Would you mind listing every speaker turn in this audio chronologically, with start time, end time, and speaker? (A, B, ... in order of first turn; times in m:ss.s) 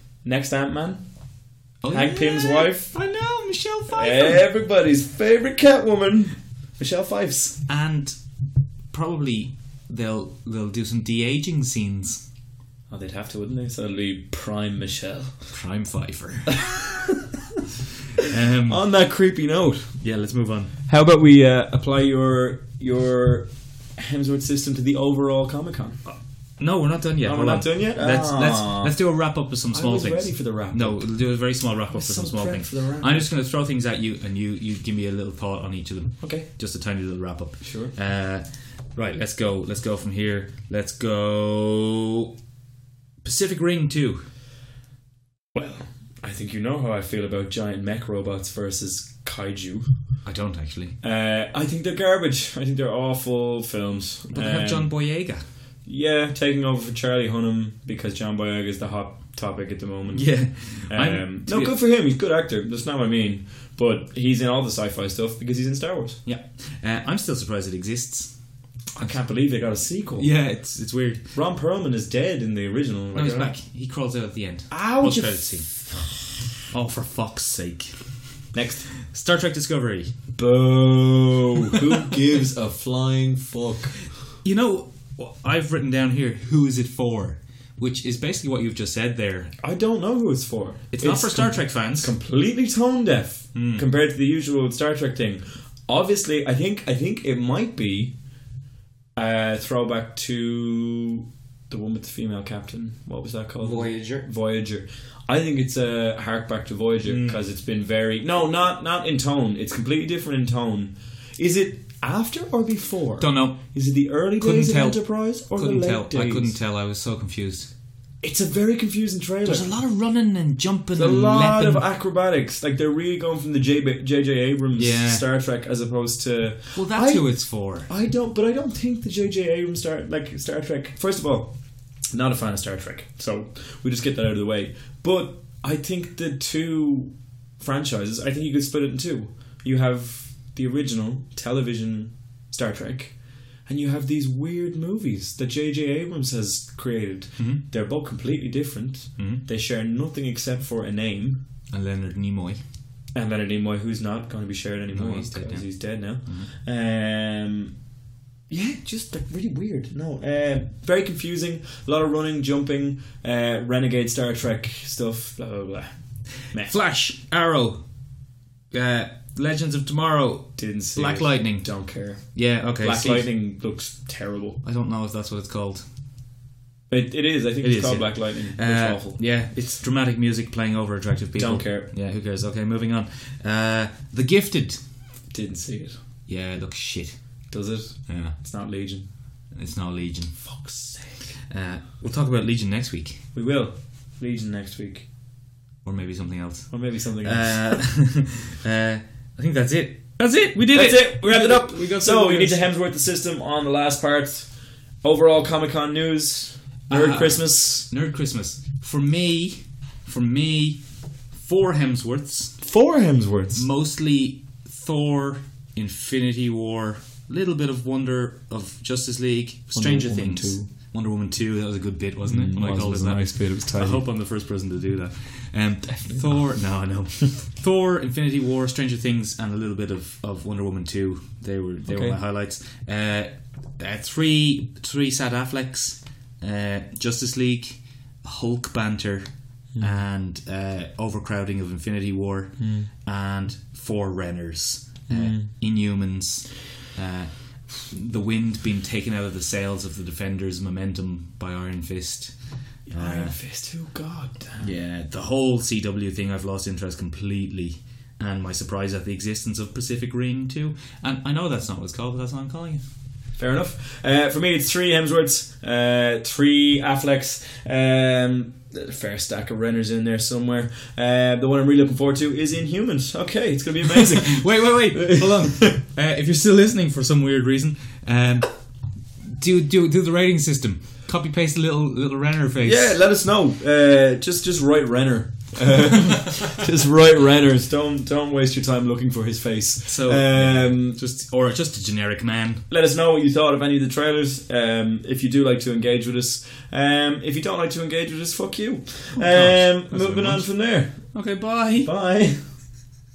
0:00.2-0:01.1 A
0:01.8-0:04.5 B
0:01.9-0:02.9 A
0:03.9-0:07.6 A
0:07.7-0:08.2 B
0:08.9-0:12.2 B
0:12.9-0:15.5 A
0:15.5-0:16.6 B
0:16.5-0:17.2 A
0:18.2-0:18.9 B
0:18.7-0:20.0 A
0:20.0-0:20.7 B
0:20.9-0:26.1 A
0:26.6-0:42.3 B
0:27.2-0:29.0 A
0:29.7-0:31.3 A
0:31.9-0:33.3 A
0:36.2-0:36.5 A
0:37.6-0:37.9 A
0:43.2-0:44.3 B
0:45.5-0:50.2 A
0:50.2-0:51.0 B
0:51.0-0:55.0 A
0:54.3-0:55.4 B
0:55.8-1:06.2 A
1:00.1-1:01.8 B
1:06.2-1:08.4 B
1:09.0-1:10.3 A
1:09.0-1:09.2 B
1:10.2-1:11.2 B
1:11.3-1:13.5 A
1:13.1-1:15.9 B
1:14.7-1:16.0 A
1:16.7-1:18.0 B
1:18.5-1:18.9 A
1:19.0-1:20.1 B
1:20.3-1:24.1 A
1:24.4-1:29.5 B
1:29.6-1:38.1 A
1:30.9-1:32.1 B
1:33.5-1:33.8 B
1:39.2-1:56.6 A
1:43.6-1:44.3 B
1:47.0-1:47.4 B
1:53.2-1:53.7 B
1:54.4-1:57.7 B
1:58.2-1:59.7 A
1:59.4-2:01.8 B
2:00.9-2:31.4 A
2:04.8-2:05.2 B
2:06.7-2:07.9 B
2:29.2-2:29.4 B
2:31.7-2:32.6 B
2:33.1-2:37.8 A
2:34.9-2:36.5 B
2:38.5-2:46.7 A
2:46.5-2:47.8 B
2:48.7-2:53.3 B
2:50.6-2:54.6 A
2:54.6-2:55.8 B
2:56.9-2:59.2 A
2:57.6-3:04.8 B
3:01.4-3:01.9 A
3:05.3-3:06.0 A
3:06.3-3:07.5 B
3:07.5-3:09.1 A
3:08.1-3:08.4 B
3:09.5-3:10.7 B
3:10.4-3:11.3 A
3:11.5-3:13.2 B
3:13.3-3:15.1 A
3:15.8-3:22.6 B
3:16.7-3:17.9 A
3:20.7-3:27.9 A
3:26.9-3:32.6 B
3:32.6-3:33.7 A
3:33.5-4:13.3 B
3:39.7-3:40.7 A
3:42.2-3:44.0 A
3:51.9-3:52.2 A
3:59.7-4:00.0 A
4:02.6-4:02.9 A
4:05.1-4:05.5 A
4:12.9-4:14.7 A
4:14.6-4:22.8 B
4:23.4-4:35.8 A
4:33.9-4:38.6 B
4:39.2-4:43.0 B
4:42.6-4:51.0 A
4:49.9-4:52.6 B
4:52.7-5:01.2 A
4:59.1-5:01.9 B
5:01.8-5:02.4 A